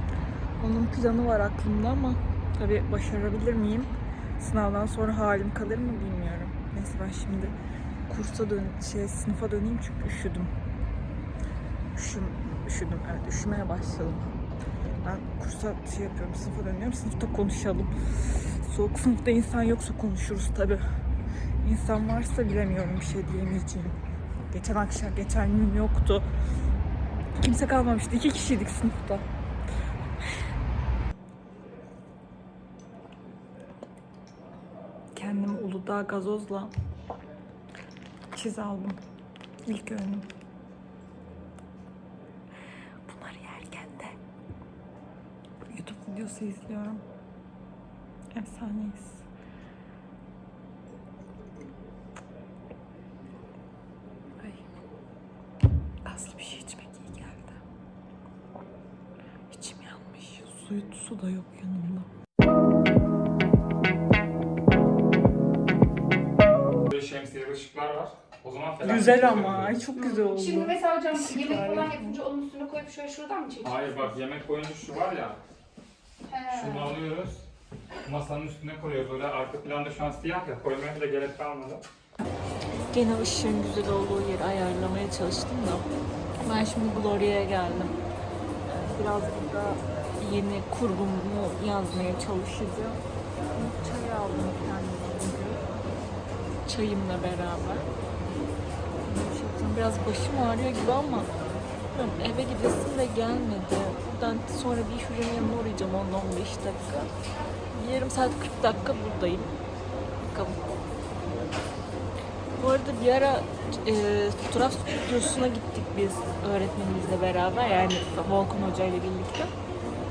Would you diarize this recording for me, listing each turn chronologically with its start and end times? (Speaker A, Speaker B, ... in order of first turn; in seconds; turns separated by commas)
Speaker A: 0.6-7.5, Speaker A: 8.1-10.5, Speaker A: 11.9-14.3, Speaker A: 15.0-20.8, Speaker A: 21.6-24.0, Speaker A: 24.5-26.3, Speaker A: 27.4-29.3, Speaker A: 35.1-36.7, Speaker A: 38.3-39.0, Speaker A: 39.7-40.3, Speaker A: 43.1-44.2, Speaker A: 45.7-47.0, Speaker A: 48.3-49.3, Speaker A: 54.4-54.6, Speaker A: 56.0-57.6, Speaker A: 59.5-62.1, Speaker B: 66.9-69.8, Speaker A: 68.8-72.2, Speaker C: 70.0-74.2, Speaker B: 73.6-75.4, Speaker C: 76.3-76.9, Speaker B: 76.5-77.5, Speaker B: 78.1-81.8, Speaker A: 82.9-85.9, Speaker A: 86.4-88.0, Speaker A: 88.7-93.0, Speaker A: 93.5-95.7, Speaker A: 96.7-97.9, Speaker A: 99.0-101.3, Speaker A: 101.9-107.1, Speaker A: 107.7-109.6, Speaker A: 110.2-110.7, Speaker A: 112.6-119.5